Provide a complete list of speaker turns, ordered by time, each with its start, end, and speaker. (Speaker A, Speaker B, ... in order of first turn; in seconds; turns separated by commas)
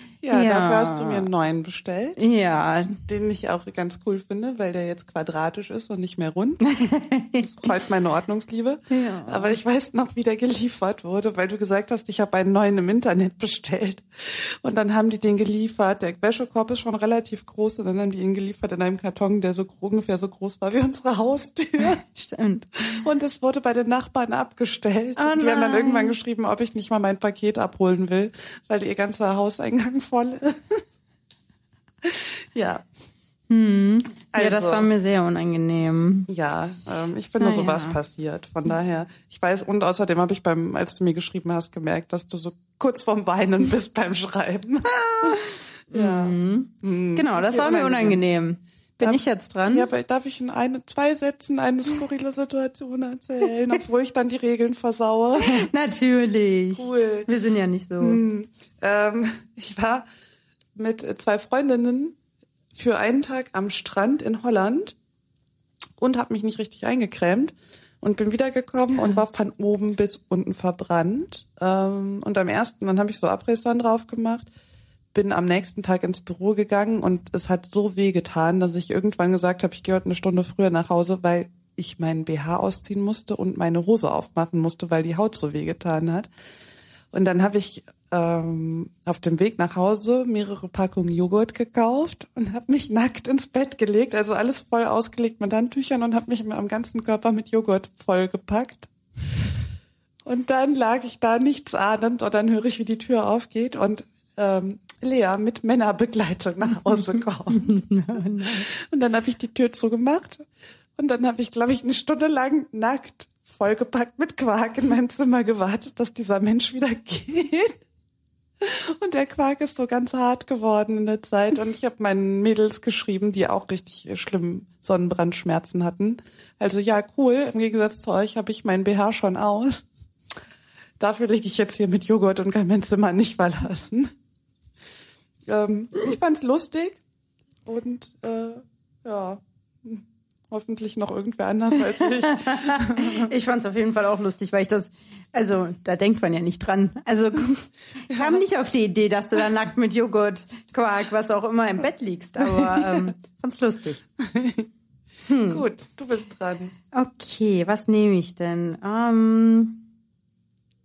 Speaker A: 0.2-2.2, Speaker B: 0.3-1.3, Speaker B: 2.2-3.0, Speaker A: 3.0-6.6, Speaker B: 6.6-7.5, Speaker A: 7.4-22.0, Speaker B: 8.9-9.6, Speaker B: 21.8-22.8, Speaker A: 22.8-30.8, Speaker B: 25.2-26.1, Speaker A: 32.0-32.9, Speaker B: 33.5-36.3, Speaker A: 34.3-34.9, Speaker A: 36.3-48.2, Speaker B: 37.4-38.0, Speaker B: 45.9-49.9, Speaker A: 49.0-55.7, Speaker B: 55.4-58.2, Speaker A: 56.7-57.3, Speaker A: 58.0-60.0, Speaker A: 60.7-62.1, Speaker A: 62.7-64.9, Speaker A: 66.0-74.5, Speaker A: 75.1-86.3, Speaker A: 87.1-98.9, Speaker A: 100.2-117.8, Speaker B: 107.5-108.7, Speaker A: 118.6-129.8, Speaker A: 131.0-134.1, Speaker A: 135.4-137.0, Speaker A: 137.7-143.3, Speaker B: 141.9-154.0, Speaker A: 148.1-148.4, Speaker A: 152.4-153.1, Speaker A: 154.2-154.7, Speaker B: 155.2-155.6, Speaker A: 155.5-156.7, Speaker B: 156.9-159.9